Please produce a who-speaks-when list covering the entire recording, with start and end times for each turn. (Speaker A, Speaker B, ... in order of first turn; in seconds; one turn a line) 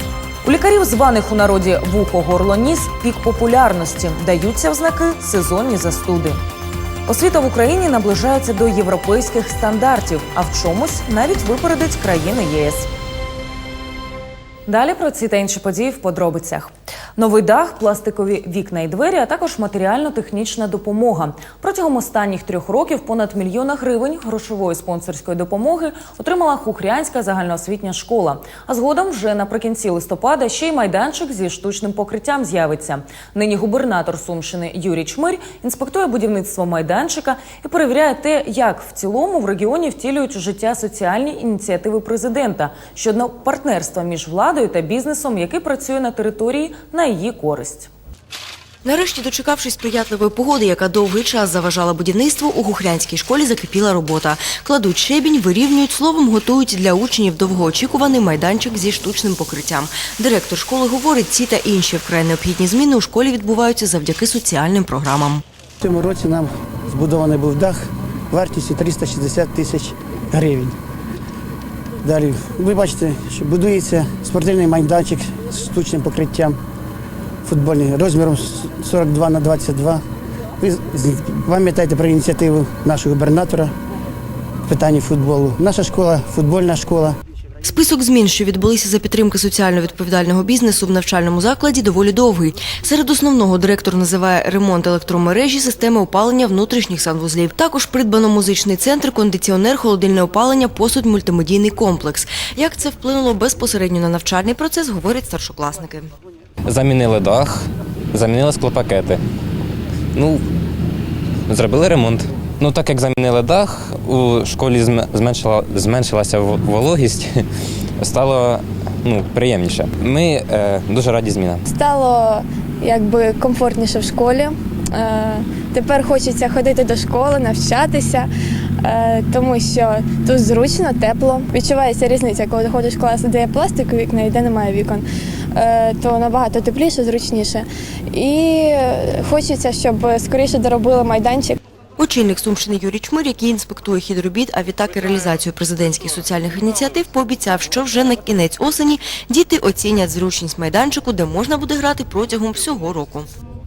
Speaker A: 0.4-6.4
Speaker A: 7.1-12.9
Speaker A: 14.7-47.9
Speaker B: 48.9-65.4
Speaker C: 65.8-70.8
Speaker C: 72.0-76.6
Speaker C: 77.5-80.0
Speaker C: 80.6-83.7
Speaker C: 84.7-87.2
Speaker B: 87.6-106.1
Speaker D: 106.8-107.6
Speaker D: 108.5-109.1
Speaker D: 111.5-117.2
Speaker D: 118.0-118.5
Speaker D: 119.0-121.6
Speaker E: 121.8-128.3
Speaker E: 128.8-135.0
Speaker E: 135.6-141.6
Speaker B: 142.0-153.3